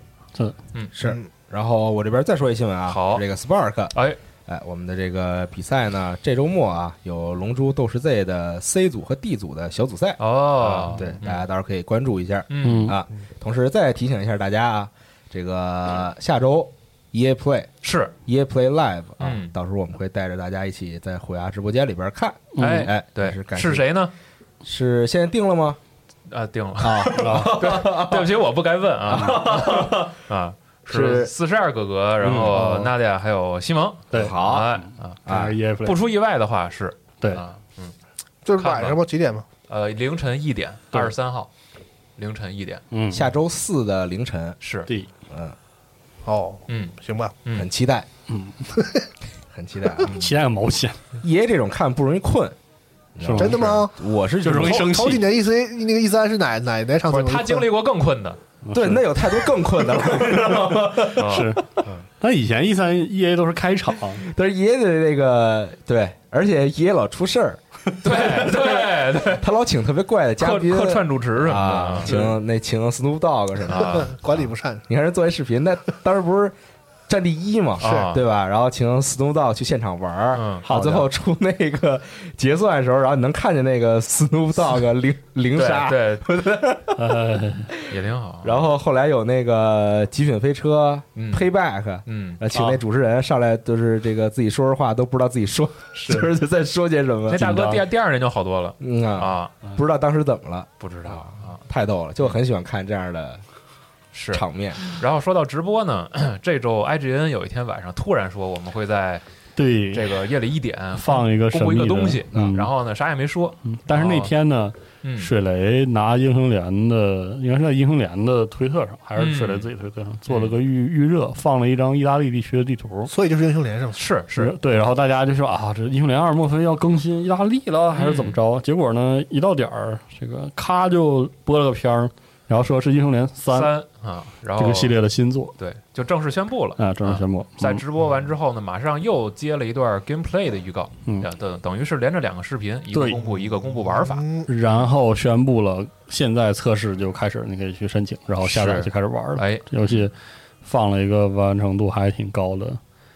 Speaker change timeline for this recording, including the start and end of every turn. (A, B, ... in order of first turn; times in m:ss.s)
0:00.9-0:04.0 A
0:01.0-0:01.3 B
0:02.9-0:03.2 C
0:04.5-0:17.7 A
0:10.2-0:11.4 C
0:12.5-0:13.0 C
0:12.6-0:13.0 D
0:17.8-0:18.1 C
0:18.3-0:23.9 A
0:19.2-0:19.5 C
0:22.6-0:22.9 D
0:22.6-0:24.1 C
0:24.6-0:25.8 A
0:26.3-0:35.2 C
0:26.8-0:28.3 A
0:27.2-0:27.6 D
0:29.1-0:30.1 A
0:30.9-0:31.3 A
0:32.2-0:32.6 A
0:32.5-0:32.9 D
0:34.1-0:36.0 D
0:34.1-0:34.7 A
0:35.3-0:35.6 A
0:35.8-0:37.9 C
0:38.4-0:39.5 B
0:38.6-0:39.0 C
0:39.7-0:41.5 C
0:42.2-0:42.8 C
0:42.9-0:43.3 D
0:43.1-0:44.6 A
0:44.6-0:44.9 C
0:45.3-0:45.6 A
0:46.2-0:47.4 B
0:46.7-0:47.7 C
0:47.5-0:48.1 A
0:48.3-0:48.6 D
0:48.8-0:49.1 B
0:49.5-0:50.3 A
0:50.1-0:51.0 D
0:51.2-0:52.6 A
0:53.2-0:55.1 A
0:53.2-0:53.6 D
0:53.4-0:53.9 B
0:54.4-0:55.2 D
0:54.6-0:57.7 B
0:57.1-0:58.4 C
0:58.6-0:59.4 D
0:58.7-1:01.3 A
1:01.1-1:01.5 C
1:01.1-1:01.7 D
1:02.2-1:04.3 D
1:04.2-1:14.1 A
1:08.0-1:09.5 C
1:10.4-1:12.2 C
1:12.1-1:12.3 B
1:13.7-1:14.1 C
1:13.8-1:14.8 B
1:14.9-1:16.6 A
1:17.1-1:27.0 A
1:17.8-1:18.2 C
1:20.3-1:20.7 C
1:20.7-1:21.0 D
1:25.5-1:26.3 C
1:27.0-1:27.7 D
1:27.9-1:37.8 A
1:27.9-1:28.7 C
1:31.2-1:31.5 C
1:32.1-1:32.8 C
1:37.3-1:39.6 C
1:37.4-1:37.8 D
1:38.8-1:43.4 A
1:40.8-1:41.6 C
1:44.1-1:49.2 C
1:44.3-1:44.8 A
1:49.6-1:50.2 D
1:49.9-1:54.3 C
1:51.0-1:52.7 D
1:53.7-2:03.1 D
1:55.0-1:55.3 C
1:59.2-1:59.7 C
2:00.3-2:00.6 C
2:03.1-2:04.0 B
2:04.0-2:04.6 C
2:04.3-2:13.7 D
2:07.9-2:08.4 C
2:13.5-2:15.0 C
2:14.6-2:15.5 D
2:15.6-2:24.9 C
2:16.8-2:17.8 D
2:22.9-2:23.2 D
2:23.2-2:24.5 B
2:24.5-2:32.8 D
2:28.4-2:30.1 C